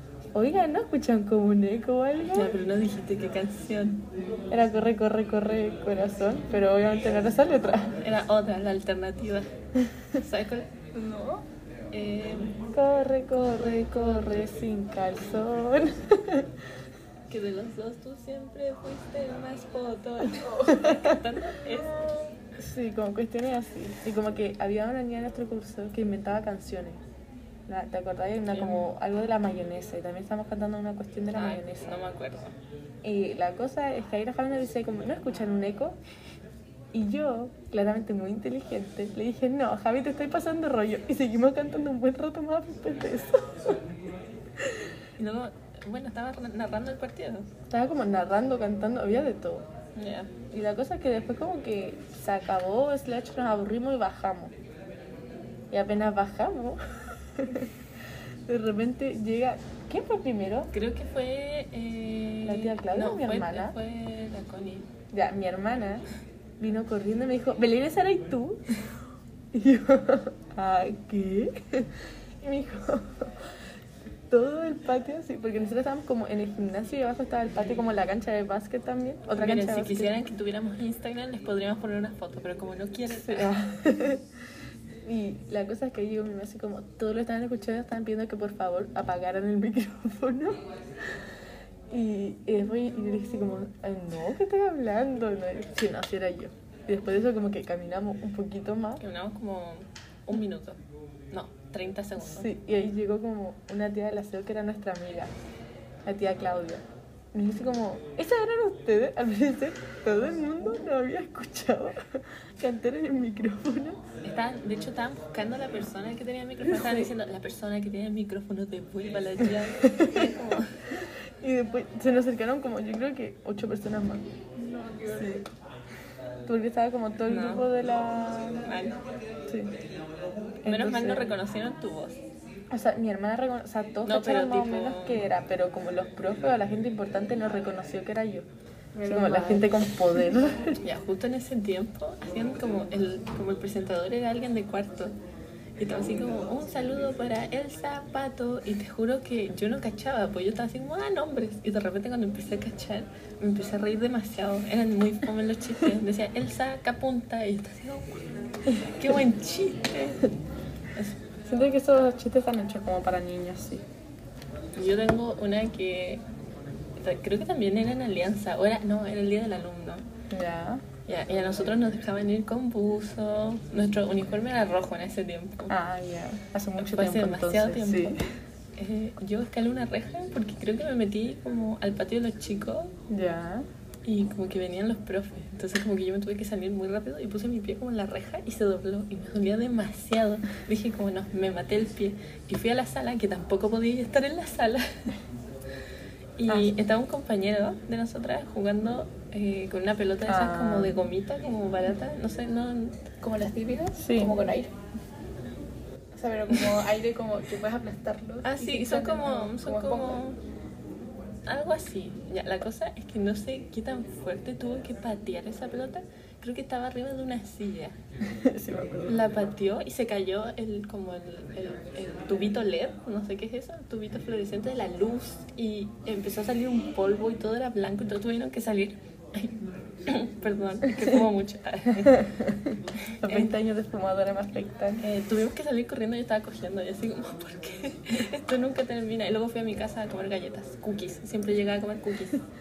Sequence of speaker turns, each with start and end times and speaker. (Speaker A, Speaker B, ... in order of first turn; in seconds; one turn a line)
Speaker A: 0.3-2.5
Speaker B: 2.3-4.0
Speaker A: 4.5-8.0
Speaker B: 8.0-9.5
Speaker B: 10.2-10.8
Speaker C: 10.9-11.4
Speaker B: 11.9-12.6
Speaker A: 12.7-16.5
Speaker B: 13.3-14.5
Speaker B: 17.3-22.3
Speaker A: 20.7-21.2
Speaker A: 22.6-27.0
Speaker A: 27.7-32.0
Speaker B: 28.5-28.9
Speaker B: 31.3-32.5
Speaker A: 33.0-36.0
Speaker A: 36.9-43.8
Speaker B: 45.2-47.5
Speaker A: 47.7-49.7
Speaker B: 50.0-50.3
Speaker A: 50.5-54.5
Speaker A: 55.7-57.7
Speaker A: 58.5-60.7
Speaker B: 60.7-64.9
Speaker A: 62.4-63.8
Speaker A: 65.1-66.1
Speaker A: 66.6-68.7
Speaker A: 69.5-73.5
Speaker A: 74.3-80.1
Speaker B: 79.4-83.5
Speaker A: 83.1-84.2
Speaker A: 85.0-90.6
Speaker A: 91.9-99.0
Speaker B: 99.0-100.8
Speaker B: 101.3-102.5
Speaker A: 102.2-105.3
Speaker A: 106.0-114.0
Speaker B: 114.2-120.8
Speaker A: 116.7-117.1
Speaker A: 120.0-120.3
Speaker A: 121.4-124.3
Speaker C: 124.6-125.4
Speaker A: 125.2-125.5
Speaker A: 126.5-128.7
Speaker B: 127.3-127.7
Speaker B: 128.6-129.0
Speaker A: 130.6-131.3
Speaker B: 130.7-132.2
Speaker A: 132.7-138.5
Speaker B: 134.1-135.2
Speaker C: 138.9-139.7
Speaker A: 139.1-140.8
Speaker B: 140.8-145.2
Speaker B: 145.8-158.3
Speaker B: 158.8-160.3
Speaker A: 161.5-163.8
Speaker B: 164.8-166.2
Speaker B: 167.0-170.1
Speaker A: 170.3-170.8
Speaker B: 171.1-175.7
Speaker A: 175.7-178.2
Speaker B: 176.8-178.2
Speaker B: 178.8-182.9
Speaker A: 183.1-183.7
Speaker B: 184.1-195.1
Speaker B: 196.4-203.1
Speaker A: 196.5-196.7
Speaker A: 200.3-201.0
Speaker C: 203.2-204.7
Speaker A: 204.0-204.4
Speaker C: 206.2-210.2
Speaker B: 208.4-210.4
Speaker B: 211.5-218.0
Speaker A: 218.2-219.2
Speaker B: 219.1-232.3
Speaker A: 232.2-235.0
Speaker B: 233.1-233.5
Speaker B: 235.0-242.4